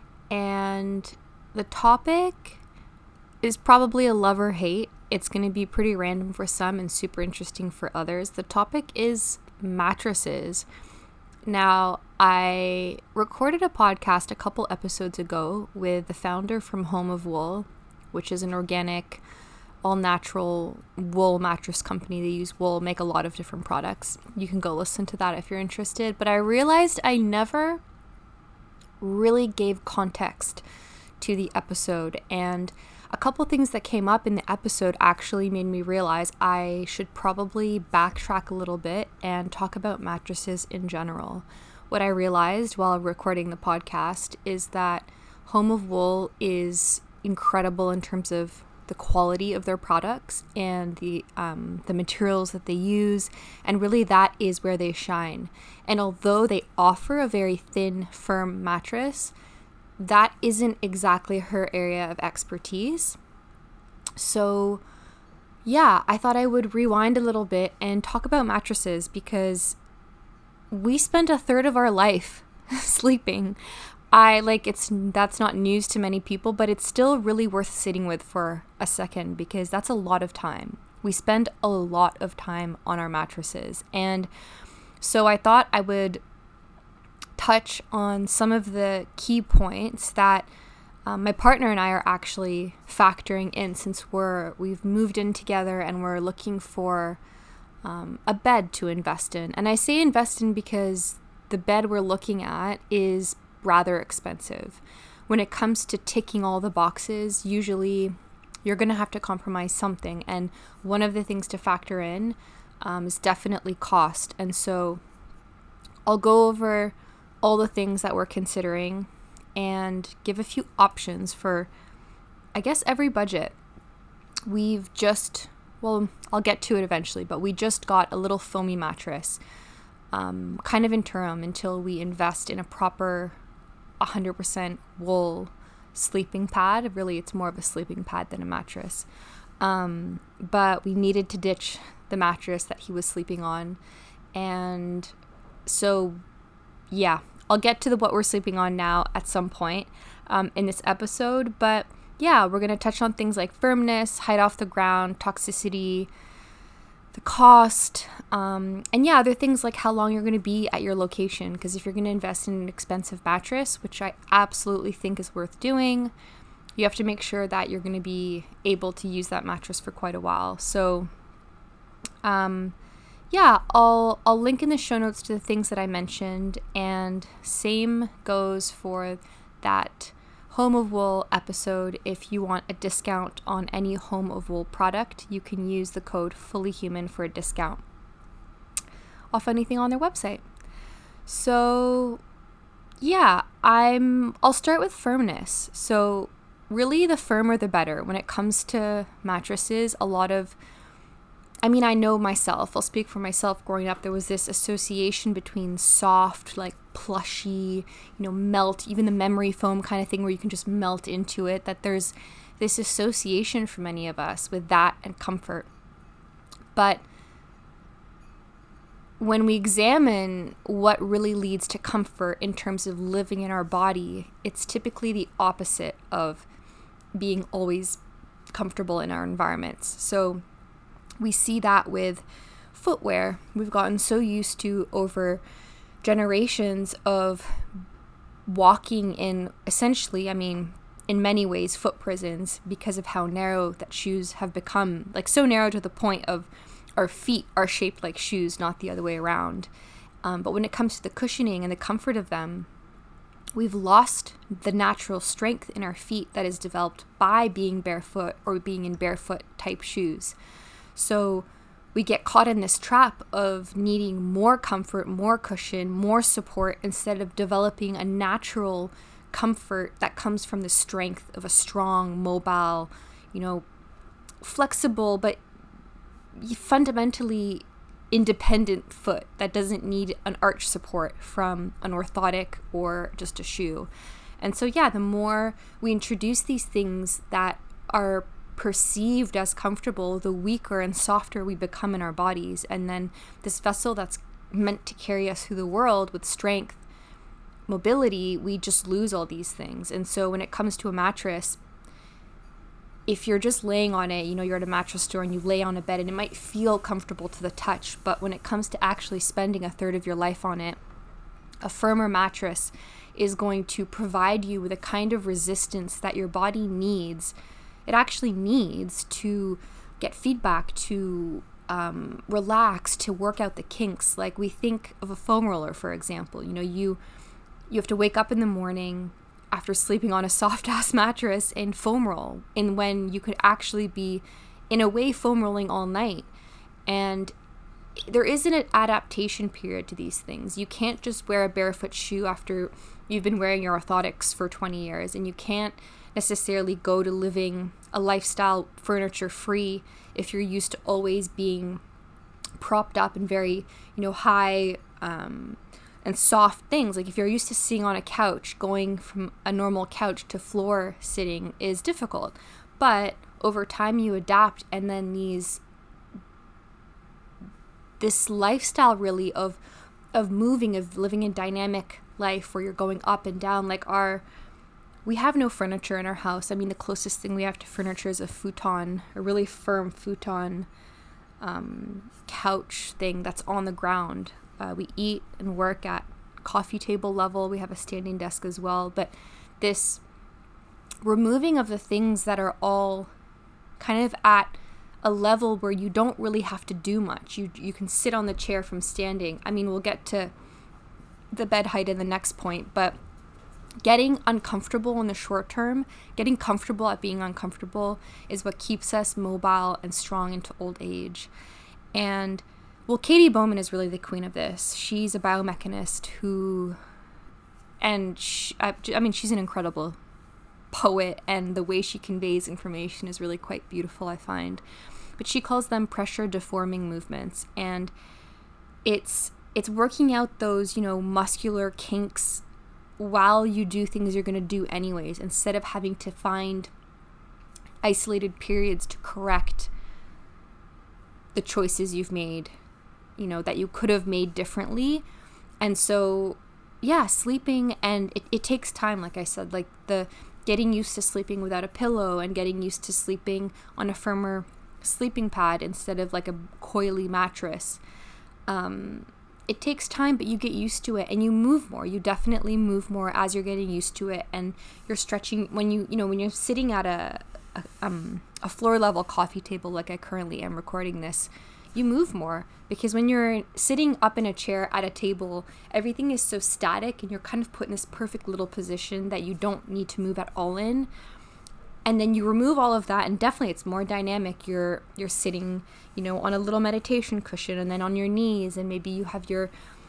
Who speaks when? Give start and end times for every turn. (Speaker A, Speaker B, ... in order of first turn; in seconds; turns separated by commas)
Speaker A: 0.3-2.6, Speaker A: 3.4-10.7, Speaker A: 11.5-19.2, Speaker A: 19.8-27.8, Speaker A: 29.0-30.6, Speaker A: 31.2-59.3, Speaker A: 60.0-63.2, Speaker A: 64.2-64.8, Speaker A: 65.7-69.8, Speaker A: 70.7-73.6, Speaker A: 74.1-84.3, Speaker A: 85.0-86.2, Speaker A: 87.4-90.5, Speaker A: 91.1-97.2, Speaker A: 97.8-115.0, Speaker A: 116.1-121.7, Speaker A: 122.5-123.6, Speaker A: 124.5-129.4, Speaker A: 130.1-133.4, Speaker A: 134.0-139.1, Speaker A: 139.6-143.8, Speaker A: 144.3-145.2, Speaker A: 145.7-146.2, Speaker A: 146.9-156.1, Speaker A: 157.1-166.1, Speaker A: 166.8-171.1, Speaker A: 172.2-172.8, Speaker A: 173.3-187.8, Speaker A: 189.3-190.4, Speaker A: 191.3-192.2, Speaker A: 193.0-200.6, Speaker A: 201.6-215.7, Speaker A: 216.8-217.0, Speaker A: 219.2-226.5, Speaker A: 227.2-228.0, Speaker A: 228.5-230.4, Speaker A: 231.2-235.4, Speaker A: 236.0-237.7, Speaker A: 238.5-249.7, Speaker A: 250.2-252.7, Speaker A: 253.6-260.4, Speaker A: 260.9-273.6, Speaker A: 274.4-275.4, Speaker A: 276.4-283.9, Speaker A: 284.4-296.8, Speaker A: 297.7-301.6, Speaker A: 303.1-310.8, Speaker A: 311.6-317.3, Speaker A: 317.9-327.0, Speaker A: 327.7-336.3, Speaker A: 336.9-337.3, Speaker A: 338.1-351.8, Speaker A: 352.6-365.6, Speaker A: 368.0-369.6, Speaker A: 370.1-374.2, Speaker A: 375.1-380.7, Speaker A: 381.4-390.0, Speaker A: 391.0-393.1, Speaker A: 393.8-400.3, Speaker A: 401.3-403.0, Speaker A: 403.8-411.3, Speaker A: 411.9-416.8, Speaker A: 417.8-420.0, Speaker A: 420.7-424.6, Speaker A: 425.2-427.9, Speaker A: 428.9-432.4, Speaker A: 433.0-436.7, Speaker A: 437.8-439.7, Speaker A: 441.4-442.5, Speaker A: 443.2-445.1, Speaker A: 445.6-457.8, Speaker A: 458.5-480.9, Speaker A: 481.9-489.5